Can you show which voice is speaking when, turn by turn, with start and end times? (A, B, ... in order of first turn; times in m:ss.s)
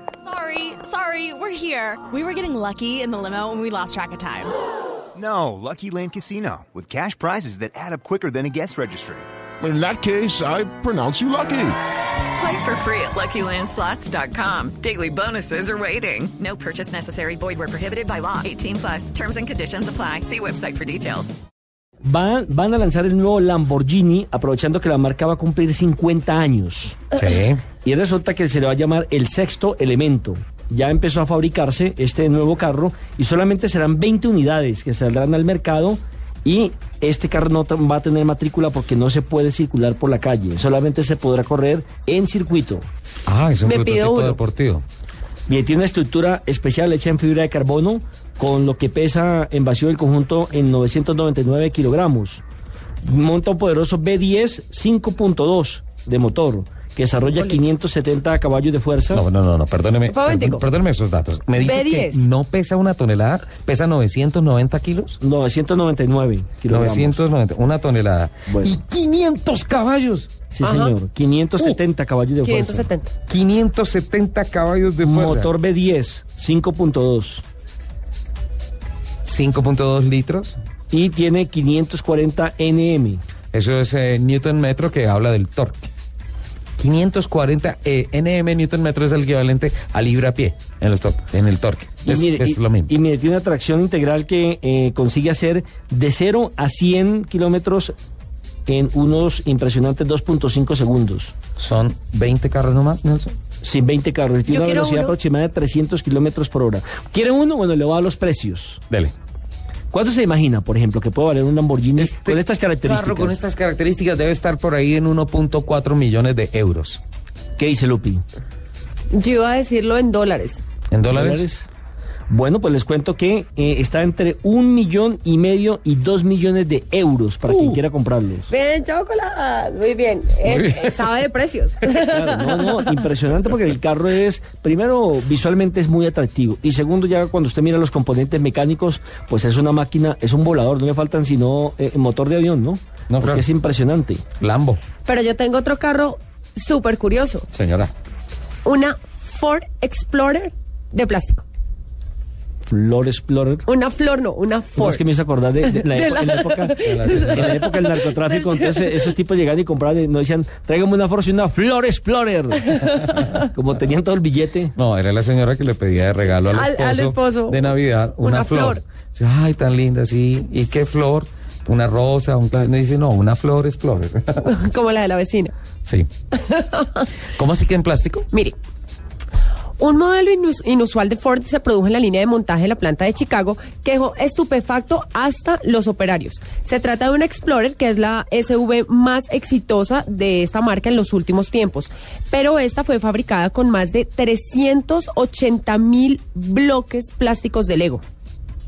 0:00.3-0:04.5 A
0:05.2-0:09.3 B
0:09.6-0:11.8 C
0:12.4-0:21.3 D
0:22.0-0:27.1 E
0:27.2-0:27.7 F
0:27.7-0:42.8 E
0:43.3-0:44.8 F
0:43.6-0:44.4 G
0:45.5-0:52.4 E
0:53.0-0:59.2 E
0:59.1-1:05.2 F
1:00.1-1:00.7 G
1:01.6-1:02.2 G
1:05.2-1:07.2 E
1:06.7-1:10.4 F
1:08.5-1:08.8 E
1:10.5-1:12.9 E
1:10.6-1:11.0 G
1:12.4-1:13.1 G
1:13.3-1:15.5 F
1:15.0-1:17.4 E
1:19.2-1:20.6 F
1:20.9-1:23.2 E
1:23.5-1:25.9 F
1:26.8-1:32.9 F
1:32.0-1:38.0 E
1:38.7-1:41.4 E
1:41.6-1:43.3 F
1:43.6-1:48.8 E
1:44.5-1:45.2 G
1:49.9-1:53.4 E
1:52.0-1:57.0 F
1:57.6-1:58.2 E
1:59.1-2:00.6 G
2:00.9-2:01.4 F
2:01.1-2:01.7 E
2:02.3-2:08.5 E
2:07.5-2:07.8 G
2:08.5-2:13.0 G
2:12.0-2:24.2 E
2:23.1-2:23.5 F
2:24.4-2:24.8 F
2:25.0-2:27.5 G
2:27.5-2:27.9 F
2:28.6-2:31.4 G
2:32.7-2:33.7 E
2:33.7-2:35.0 G
2:34.8-2:42.8 E
2:35.6-2:39.1 G
2:36.8-2:37.5 F
2:42.8-2:43.4 G
2:43.4-2:44.7 E
2:44.8-2:54.5 F
2:46.5-2:48.8 G
2:54.4-2:55.5 G
2:56.5-2:56.8 G
2:57.3-2:58.3 F
2:59.8-3:18.0 G